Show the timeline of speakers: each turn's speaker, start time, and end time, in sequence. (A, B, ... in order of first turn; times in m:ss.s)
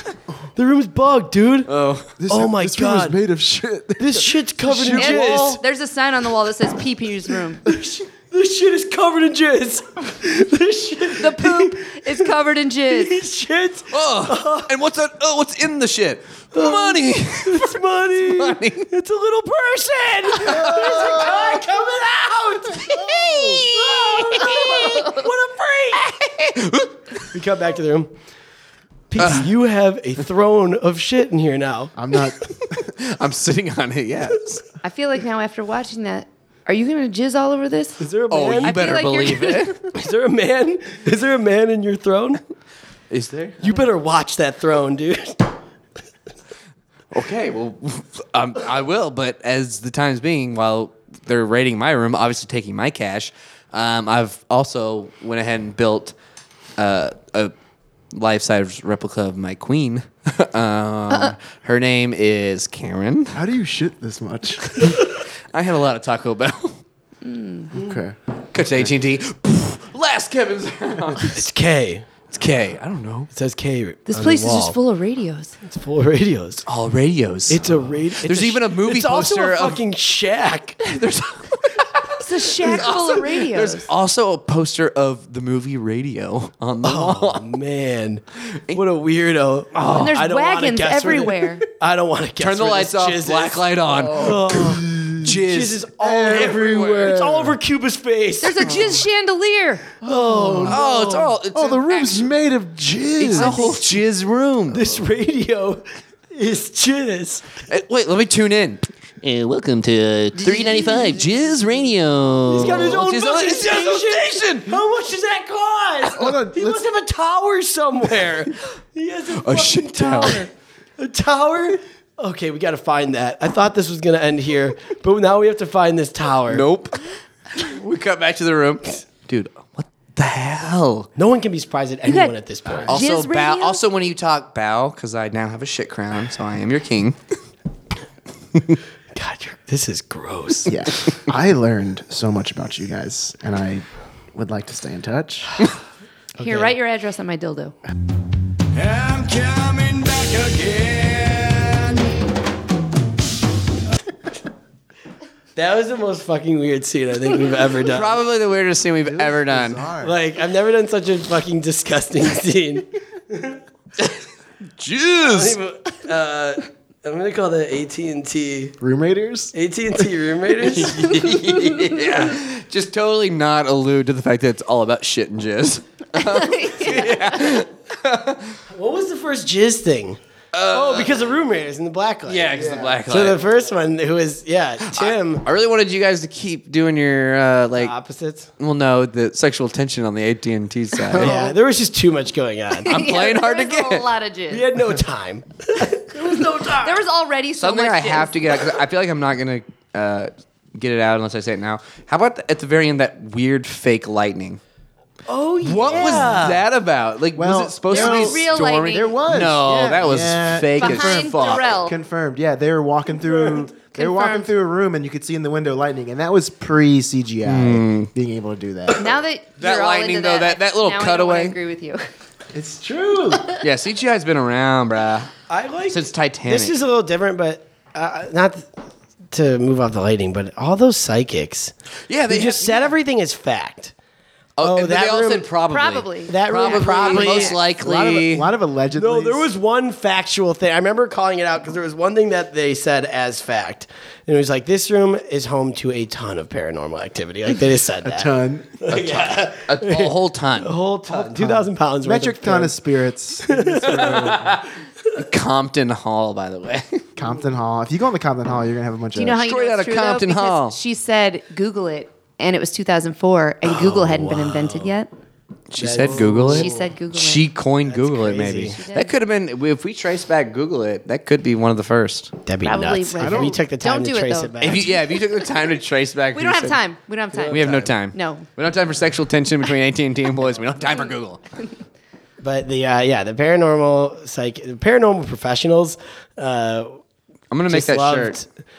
0:00.6-0:01.7 A
0:01.7-0:02.1 B
0:02.2-0:05.5 C
0:02.3-0:03.2 A
0:04.0-0:05.6 A
0:04.9-0:07.6 D
0:07.6-0:12.3 A
0:11.1-0:13.2 D
0:12.9-0:14.7 A
0:13.9-0:18.9 B
0:16.5-0:26.0 A
0:20.4-0:21.6 C
0:20.4-0:21.6 B
0:22.7-0:25.2 B
0:22.8-0:23.6 C
0:24.5-0:24.9 D
0:25.9-0:27.3 B
0:27.3-0:28.1 A
0:29.1-0:31.9 A
0:29.2-0:29.5 B
0:32.0-0:32.9 C
0:32.7-0:34.6 B
0:34.8-0:39.8 D
0:38.0-0:38.8 A
0:38.3-0:39.8 B
0:39.8-0:42.4 A
0:43.1-0:43.7 B
0:43.6-0:45.5 A
0:47.1-0:56.1 B
0:56.8-0:57.5 B
0:58.1-1:03.4 B
1:03.3-1:04.9 C
1:04.7-1:06.8 B
1:07.2-1:07.7 D
1:07.7-1:08.9 C
1:08.5-1:11.4 B
1:11.3-1:12.0 A
1:12.3-1:13.3 B
1:13.3-1:14.8 A
1:14.1-1:15.6 D
1:15.6-1:16.6 A
1:16.6-1:19.8 B
1:17.5-1:20.8 A
1:20.8-1:27.6 B
1:22.2-1:23.9 D
1:26.8-1:39.0 A
1:28.5-1:28.8 B
1:29.7-1:30.2 B
1:29.9-1:31.6 D
1:32.4-1:37.1 B
1:34.2-1:35.3 C
1:36.0-1:37.6 C
1:38.4-1:39.9 D
1:40.0-1:40.8 C
1:40.0-1:41.3 A
1:40.6-1:42.3 B
1:41.5-1:43.7 C
1:43.2-1:45.0 B
1:43.4-1:43.7 D
1:44.7-1:47.5 A
1:47.6-1:54.7 B
1:50.5-1:51.1 D
1:52.5-2:06.6 A
1:56.1-1:56.9 C
1:59.3-2:00.5 B
2:06.5-2:11.1 B
2:11.2-2:13.0 A
2:12.0-2:12.3 D
2:12.8-2:13.8 D
2:12.9-2:17.2 B
2:19.1-2:20.9 A
2:20.7-2:25.6 C
2:26.4-2:26.7 A
2:26.4-2:27.8 D
2:28.7-2:32.1 E
2:35.5-2:38.2 A
2:37.8-2:39.8 B
2:39.0-2:40.2 C
2:40.0-2:43.6 A
2:44.8-2:45.6 B
2:45.2-2:48.8 A
2:48.8-2:49.5 C
2:49.5-2:51.5 A
2:50.6-2:58.6 B
2:56.1-2:57.6 D
2:58.7-3:00.2 A
3:00.5-3:01.3 B
3:00.7-3:05.4 A
3:02.2-3:03.4 B
3:02.5-3:03.0 C
3:04.8-3:07.9 B
3:07.8-3:08.5 A
3:08.6-3:11.4 B
3:11.1-3:11.6 C
3:11.1-3:13.0 A
3:12.8-3:14.1 B
3:12.8-3:14.7 D
3:14.5-3:17.0 A
3:16.2-3:18.6 D
3:17.6-3:24.6 B
3:25.3-3:26.6 A
3:25.6-3:31.7 B
3:25.9-3:26.3 C
3:27.3-3:39.1 C
3:27.9-3:29.2 D
3:30.8-3:31.9 D
3:33.3-3:33.6 A
3:33.9-3:34.5 D
3:37.4-3:38.1 B
3:39.0-3:42.0 D
3:39.6-3:41.6 B
3:42.5-3:43.5 C
3:42.9-3:43.4 A
3:43.6-3:45.3 B
3:45.5-3:48.7 A
3:45.9-3:46.8 B
3:49.3-3:51.7 A
3:52.1-3:52.9 B
3:52.3-3:53.9 A
3:54.6-3:58.5 B
3:54.6-3:55.5 A
3:55.7-3:57.6 D
3:56.2-3:57.6 A
3:57.8-3:59.5 C
3:58.9-4:12.8 A
4:08.0-4:08.9 C
4:08.9-4:10.8 B
4:11.1-4:14.6 C
4:13.4-4:14.4 A
4:13.8-4:17.0 B
4:17.2-4:19.5 C
4:19.1-4:25.1 D
4:19.4-4:20.8 B
4:23.6-4:24.9 A
4:25.7-4:32.3 B
4:25.8-4:26.9 A
4:26.1-4:27.5 D
4:27.8-4:28.8 A
4:28.7-4:29.1 D
4:32.4-4:35.0 A
4:32.6-4:34.8 D
4:33.2-4:33.6 C
4:34.6-4:36.8 B
4:36.3-4:38.5 D
4:37.3-4:37.9 A
4:37.5-4:41.4 B
4:42.4-4:47.0 A
4:47.5-4:48.4 B
4:47.7-4:48.5 A